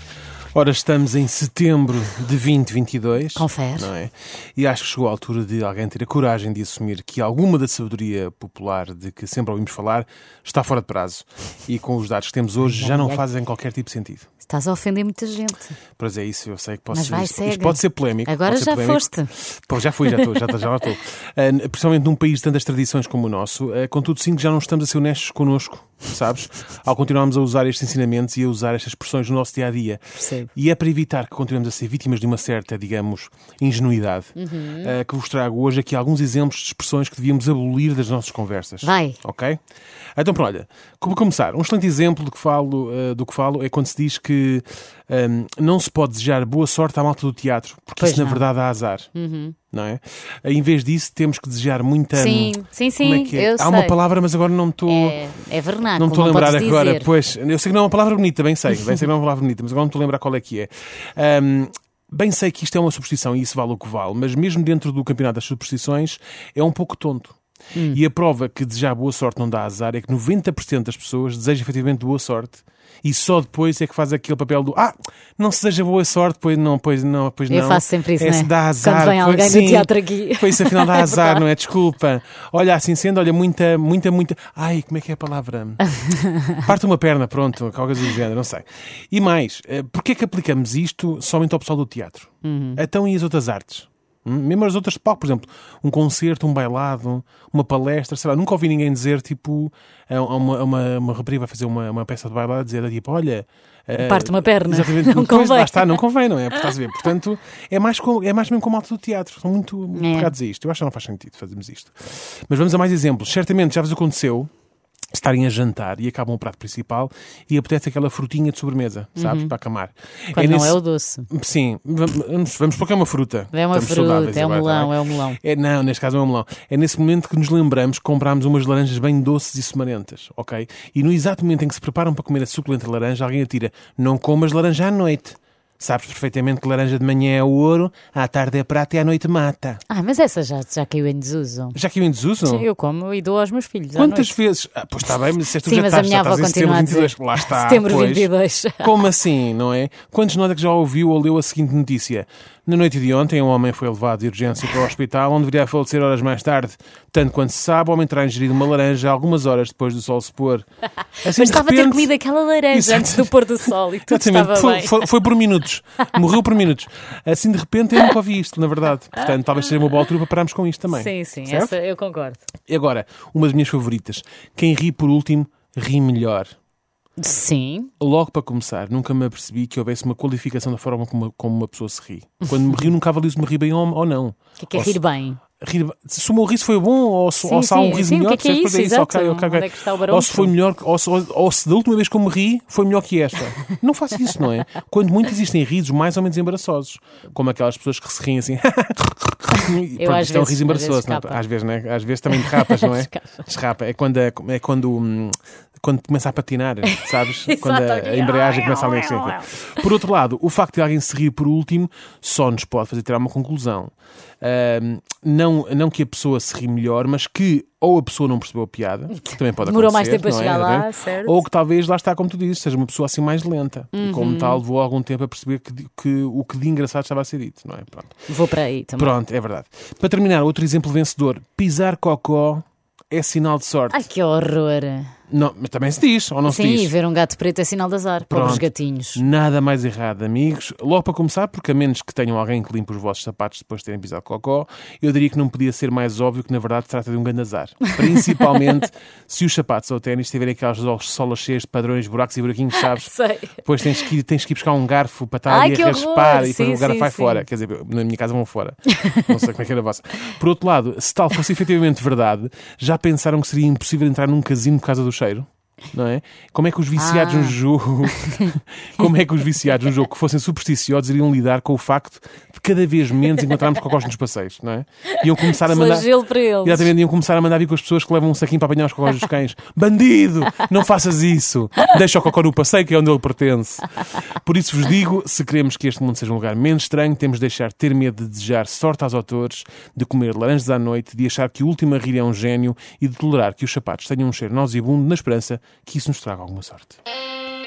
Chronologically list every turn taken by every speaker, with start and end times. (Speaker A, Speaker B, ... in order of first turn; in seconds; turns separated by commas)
Speaker A: 0.5-14.3, Speaker B: 3.3-3.9, Speaker B: 12.6-13.2, Speaker B: 14.4-15.8, Speaker A: 16.0-39.6, Speaker B: 16.9-19.3, Speaker B: 30.2-30.5, Speaker B: 34.4-34.9, Speaker B: 38.8-39.2, Speaker A: 40.2-49.1, Speaker B: 48.0-48.5, Speaker B: 49.1-49.5, Speaker A: 49.7-55.2, Speaker B: 52.1-54.0, Speaker B: 54.9-57.1, Speaker A: 56.0-67.4, Speaker B: 67.8-68.0, Speaker A: 67.9-85.8, Speaker B: 77.5-81.5, Speaker A: 86.6-114.5, Speaker B: 92.4-92.8, Speaker B: 104.0-106.7, Speaker B: 110.0-110.3, Speaker A: 115.1-139.8, Speaker B: 119.2-119.5, Speaker B: 120.3-121.3, Speaker B: 123.5-125.4, Speaker B: 139.9-141.8, Speaker A: 141.7-142.7, Speaker B: 142.4-144.4, Speaker A: 143.9-160.7, Speaker B: 145.6-149.1, Speaker A: 161.2-162.1, Speaker B: 161.3-165.1, Speaker A: 162.7-171.8, Speaker B: 170.9-172.4, Speaker A: 172.7-176.5, Speaker B: 177.2-177.9, Speaker A: 178.0-185.0, Speaker B: 184.6-185.4, Speaker A: 185.6-228.2, Speaker B: 187.4-190.6, Speaker B: 199.9-201.4, Speaker B: 202.3-203.4, Speaker B: 206.8-209.5, Speaker B: 219.6-221.4, Speaker B: 223.9-224.6, Speaker B: 228.3-229.2, Speaker A: 229.0-234.1, Speaker B: 233.9-235.1, Speaker A: 235.3-236.9, Speaker B: 236.4-239.2, Speaker A: 238.3-276.1, Speaker B: 252.8-254.1, Speaker B: 255.5-257.5, Speaker B: 267.0-267.6, Speaker B: 275.4-276.9, Speaker A: 276.6-297.0